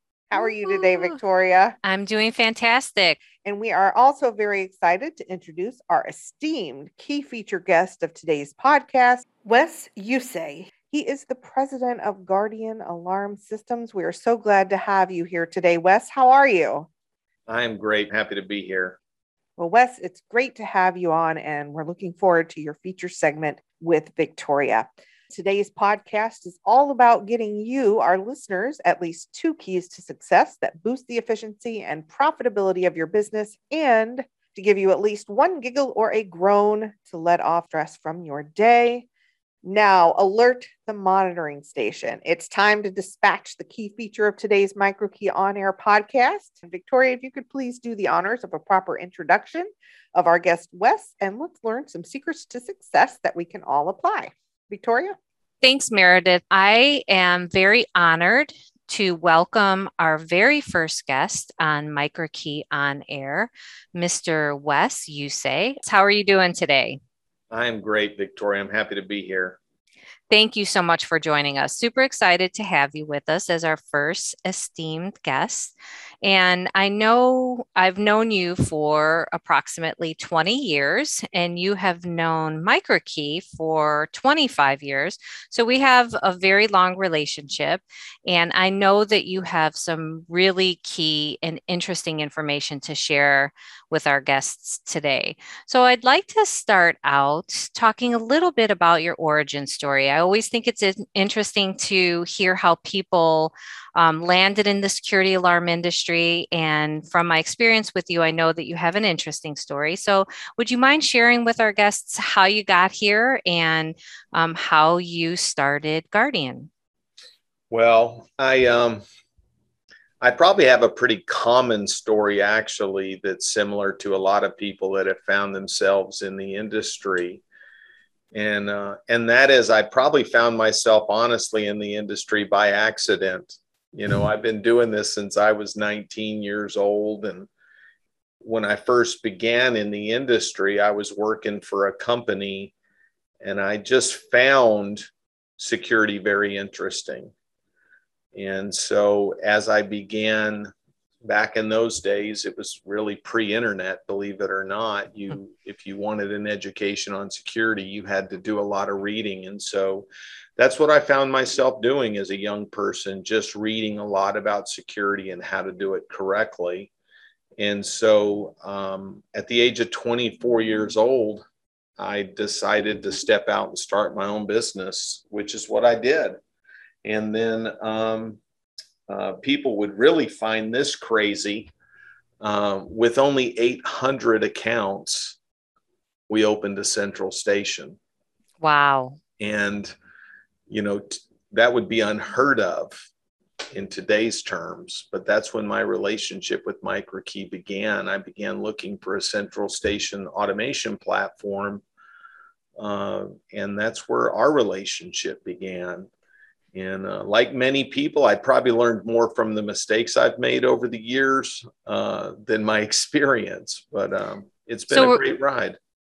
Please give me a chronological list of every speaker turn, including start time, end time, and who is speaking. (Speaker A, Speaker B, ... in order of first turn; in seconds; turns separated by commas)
Speaker A: 0.3-1.8, Speaker B: 0.4-1.1, Speaker B: 1.8-3.2, Speaker A: 3.4-16.9, Speaker C: 17.5-19.0, Speaker A: 19.6-39.1, Speaker A: 39.6-55.1, Speaker B: 55.6-67.0, Speaker C: 67.5-69.6, Speaker B: 70.3-116.7, Speaker C: 117.7-119.0, Speaker C: 120.2-127.4, Speaker C: 128.3-137.5, Speaker C: 138.4-142.7, Speaker C: 143.4-145.0, Speaker C: 145.6-147.3, Speaker C: 148.3-150.7, Speaker C: 151.2-166.9, Speaker C: 167.6-171.4, Speaker C: 172.0-176.4, Speaker C: 177.0-178.4, Speaker C: 179.1-181.7, Speaker C: 182.4-185.4, Speaker C: 186.3-188.0, Speaker B: 188.6-189.2, Speaker C: 189.4-189.9, Speaker C: 190.7-193.1, Speaker C: 193.7-201.8, Speaker C: 202.8-206.1, Speaker C: 206.7-215.8, Speaker B: 214.9-215.2